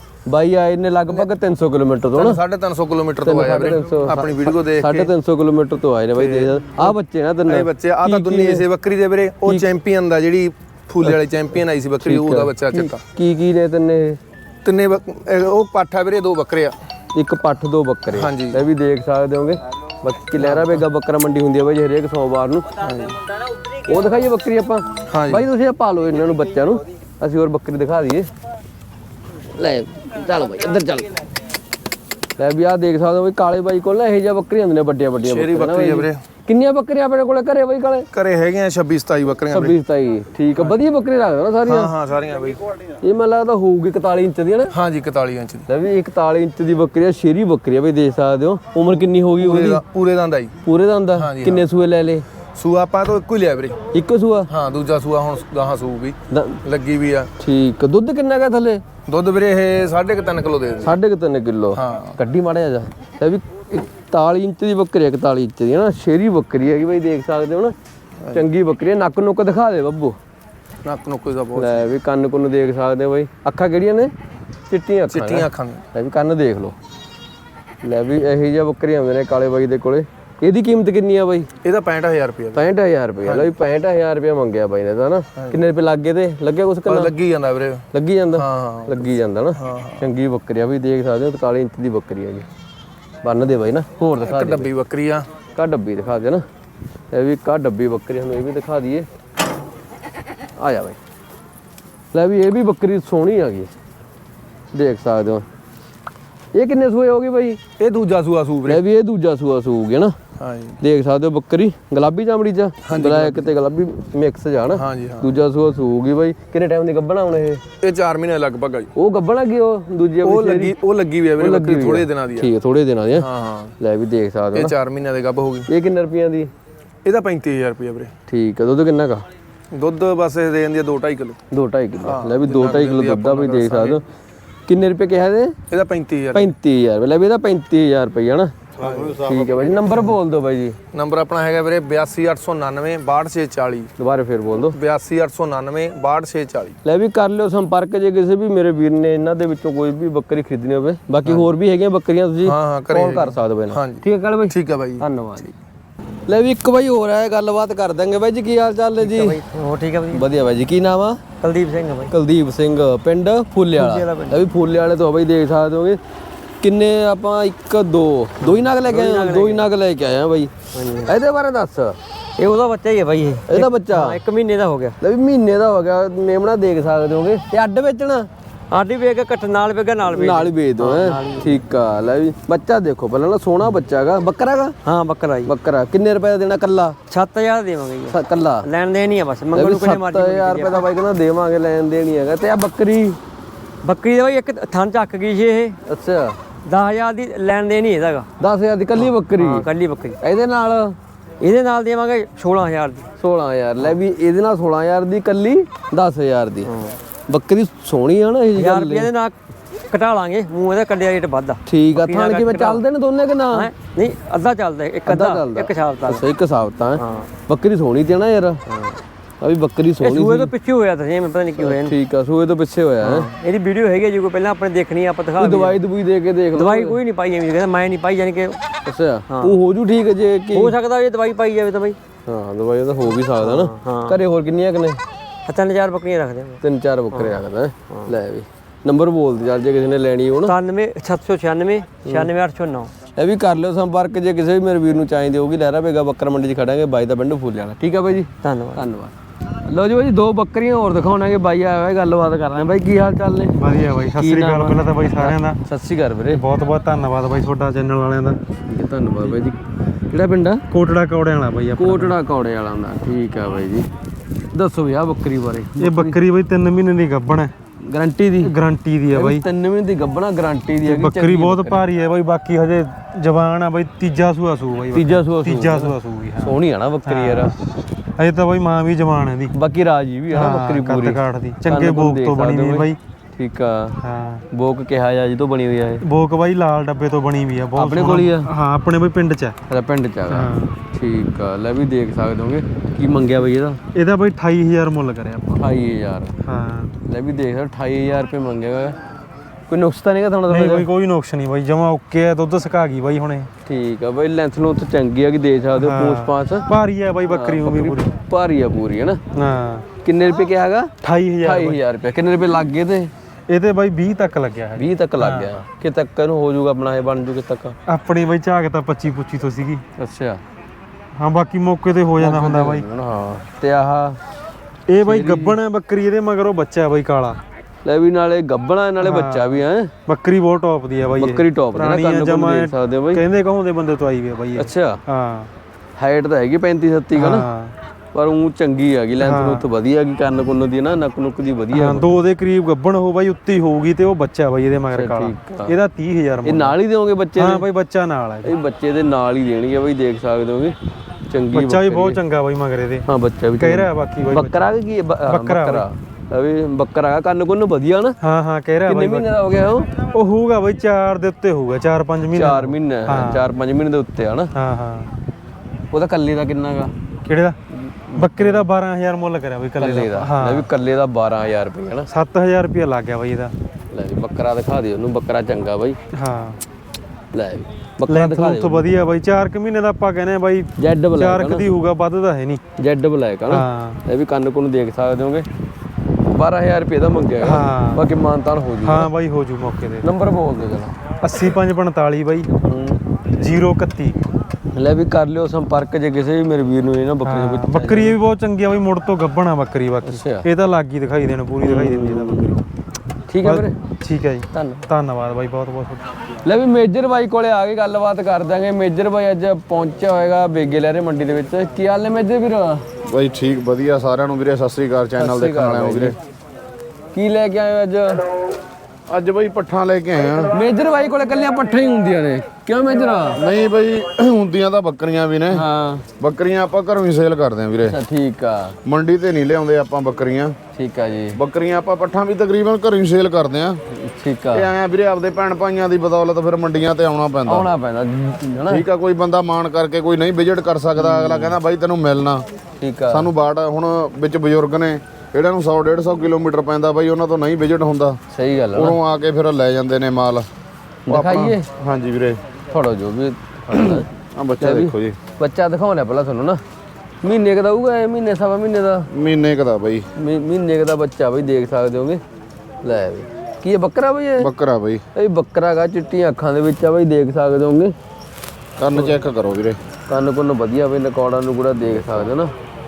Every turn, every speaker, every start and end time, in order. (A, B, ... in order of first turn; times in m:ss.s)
0:00.3-0:02.4 A
0:02.2-0:05.1 B
0:03.2-0:08.7 A
0:06.2-0:13.0 B
0:12.0-0:14.2 A
0:14.6-0:16.8 B
0:17.1-0:22.7 A
0:18.1-0:18.6 B
0:20.4-0:20.8 B
0:22.8-0:23.2 B
0:23.9-0:28.3 A
0:25.1-0:25.5 B
0:29.5-0:31.1 A
0:32.4-0:38.1 A
0:35.2-0:36.2 B
0:38.1-0:39.8 B
0:39.5-0:41.9 A
0:41.6-0:42.6 B
0:43.0-0:44.7 A
0:44.7-0:45.7 B
0:45.7-0:49.8 A
0:49.4-0:50.6 B
0:50.6-0:52.2 A
0:51.2-0:51.7 B
0:52.6-0:53.8 B
0:53.9-0:54.5 A
0:54.5-0:57.3 B
0:56.3-0:56.6 A
0:57.4-0:58.8 A
0:59.1-1:01.0 B
1:00.8-1:07.8 A
1:01.8-1:02.2 B
1:08.2-1:08.5 B
1:08.3-1:10.2 A
1:10.8-1:11.9 B
1:11.6-1:14.1 A
1:14.7-1:16.8 A
1:15.1-1:15.8 B
1:17.8-1:21.5 A
1:21.6-1:22.7 B
1:22.6-1:27.1 A
1:23.2-1:23.5 B
1:25.4-1:25.6 B
1:26.9-1:30.1 B
1:27.9-1:32.5 A
1:33.2-1:34.7 A
1:34.2-1:35.3 B
1:35.6-1:36.5 A
1:37.1-1:39.1 A
1:40.6-1:41.0 A
1:42.1-1:43.7 A
1:44.7-1:45.4 A
1:46.5-1:47.6 A
1:47.8-1:48.8 B
1:48.7-1:50.2 A
1:50.4-1:50.8 B
1:50.8-1:57.6 A
1:52.8-1:53.5 B
1:54.7-1:55.4 B
1:57.8-1:58.9 B
1:59.0-2:00.8 A
2:00.2-2:02.5 B
2:01.4-2:03.3 A
2:03.2-2:03.8 B
2:03.8-2:04.8 A
2:04.5-2:05.7 B
2:05.7-2:06.5 A
2:07.0-2:08.1 B
2:08.3-2:09.3 A
2:09.7-2:11.4 B
2:11.5-2:14.0 A
2:12.0-2:14.0 B
2:14.7-2:15.6 A
2:15.7-2:16.5 B
2:16.3-2:20.8 A
2:18.8-2:19.3 B
2:18.9-2:19.4 C
2:20.9-2:23.9 B
2:24.0-2:24.8 A
2:24.7-2:26.8 B
2:26.8-2:35.6 A
2:31.2-2:31.5 B
2:32.4-2:35.0 B
2:36.3-2:39.4 A
2:39.0-2:40.3 D
2:40.1-2:41.2 A
2:41.4-2:42.1 D
2:42.1-2:46.0 A
2:43.8-2:44.5 D
2:46.6-2:52.0 A
2:48.4-2:49.6 D
2:50.7-2:51.2 D
2:52.4-2:55.0 D
2:53.5-2:54.2 A
2:55.0-2:58.3 A
2:58.7-3:01.6 D
3:00.1-3:04.8 A
3:04.8-3:05.5 D
3:05.4-3:07.0 A
3:07.1-3:10.8 D
3:08.1-3:08.7 A
3:09.5-3:13.2 A
3:13.8-3:15.8 D
3:15.9-3:16.4 A
3:16.6-3:18.3 D
3:18.4-3:19.7 A
3:19.0-3:20.2 D
3:20.2-3:21.0 A
3:21.4-3:23.1 D
3:23.2-3:26.7 A
3:26.6-3:27.0 D
3:27.3-3:29.1 A
3:28.6-3:29.4 D
3:29.9-3:32.8 D
3:31.7-3:33.7 A
3:33.5-3:36.2 D
3:35.1-3:38.6 A
3:37.0-3:37.3 D
3:38.7-3:39.0 D
3:39.4-3:40.5 A
3:40.0-3:42.0 D
3:41.6-3:43.3 A
3:43.0-3:45.8 D
3:45.4-3:47.0 A
3:46.6-3:48.6 D
3:48.8-3:50.8 A
3:49.3-3:49.6 D
3:50.5-3:52.0 D
3:52.3-3:55.0 A
3:53.4-3:54.2 D
3:55.5-3:56.6 D
3:56.6-4:00.6 A
3:57.1-3:58.1 D
4:00.4-4:02.9 D
4:03.2-4:09.1 A
4:08.4-4:08.8 D
4:09.6-4:16.4 A
4:13.6-4:15.6 C
4:16.3-4:18.4 C
4:18.6-4:19.6 A
4:20.1-4:20.6 A
4:20.7-4:22.2 C
4:21.8-4:23.9 A
4:24.5-4:26.2 A
4:25.8-4:27.5 C
4:27.9-4:28.6 A
4:28.4-4:29.4 C
4:29.1-4:31.8 A
4:30.8-4:36.6 C
4:34.9-4:37.6 A
4:37.1-4:39.5 C
4:39.5-4:44.0 A
4:40.3-4:43.0 C
4:44.0-4:44.4 C
4:44.5-4:46.0 A
4:46.0-4:49.6 C
4:47.8-4:48.5 A
4:49.7-4:53.8 A
4:50.3-4:50.8 C
4:53.9-4:55.6 C
4:55.6-4:56.4 A
4:56.4-4:56.9 C
4:57.1-4:59.0 A
4:59.7-5:00.9 A
5:00.5-5:03.5 C
5:03.7-5:06.7 A
5:05.8-5:08.1 C
5:07.3-5:09.2 A
5:09.4-5:09.9 C
5:10.0-5:13.1 A
5:11.0-5:11.8 C
5:13.5-5:15.5 C
5:14.8-5:17.8 A
5:17.9-5:19.8 C
5:20.0-5:20.4 A
5:21.2-5:22.9 C
5:22.2-5:24.2 A
5:24.9-5:27.4 C
5:25.0-5:25.6 A
5:27.8-5:29.9 A
5:29.0-5:35.5 C
5:31.2-5:33.2 A
5:34.6-5:35.0 A
5:36.0-5:37.5 A
5:37.1-5:37.8 C
5:38.1-5:42.1 A
5:39.2-5:39.6 C
5:41.7-5:46.8 C
5:44.9-5:45.8 A
5:46.4-5:47.7 A
5:47.4-5:48.5 C
5:48.4-5:50.8 A
5:51.3-5:52.2 A
5:51.5-5:53.1 C
5:53.1-5:58.2 A
5:53.6-5:54.7 C
5:55.3-5:55.9 C
5:58.2-5:59.3 C
5:58.9-5:59.9 A
6:00.0-6:03.5 C
6:02.3-6:04.5 A
6:04.6-6:05.1 C
6:05.9-6:06.9 A
6:07.3-6:07.6 C
6:08.1-6:08.7 A
6:08.1-6:10.7 C
6:09.8-6:12.1 A
6:12.1-6:13.5 C
6:13.9-6:16.0 A
6:16.1-6:16.6 C
6:17.3-6:18.9 A
6:18.1-6:22.6 C
6:20.8-6:21.7 A
6:22.8-6:25.5 A
6:23.5-6:24.0 C
6:26.2-6:29.1 A
6:27.4-6:28.0 C
6:28.8-6:30.1 C
6:30.0-6:31.0 A
6:31.2-6:32.5 C
6:32.7-6:33.0 A
6:33.4-6:34.2 C
6:34.7-6:38.2 A
6:37.2-6:42.6 C
6:40.0-6:40.5 A
6:41.6-6:42.5 A
6:43.3-6:43.8 A
6:43.4-6:46.2 C
6:44.5-6:44.9 A
6:46.4-6:52.9 A
6:53.0-6:56.2 E
6:55.2-6:56.2 A
6:57.1-6:58.2 A
6:59.1-7:00.6 E
7:00.5-7:03.4 A
7:03.3-7:05.6 E
7:05.5-7:06.1 A
7:06.2-7:08.0 E
7:07.8-7:08.8 A
7:08.8-7:10.6 E
7:10.8-7:11.4 A
7:11.4-7:13.8 E
7:13.9-7:14.7 A
7:14.5-7:17.7 E
7:17.5-7:18.8 A
7:18.7-7:22.4 E
7:21.0-7:21.6 A
7:22.8-7:23.3 A
7:23.1-7:28.2 E
7:28.3-7:29.0 A
7:28.8-7:30.5 E
7:31.1-7:31.7 A
7:31.1-7:32.4 E
7:32.7-7:34.1 A
7:33.8-7:35.2 E
7:34.6-7:36.6 A
7:37.2-7:39.1 A
7:39.1-7:40.1 E
7:40.2-7:42.2 A
7:42.8-7:44.5 A
7:44.4-7:45.0 E
7:45.2-7:48.0 A
7:48.8-7:49.8 E
7:50.1-7:52.5 A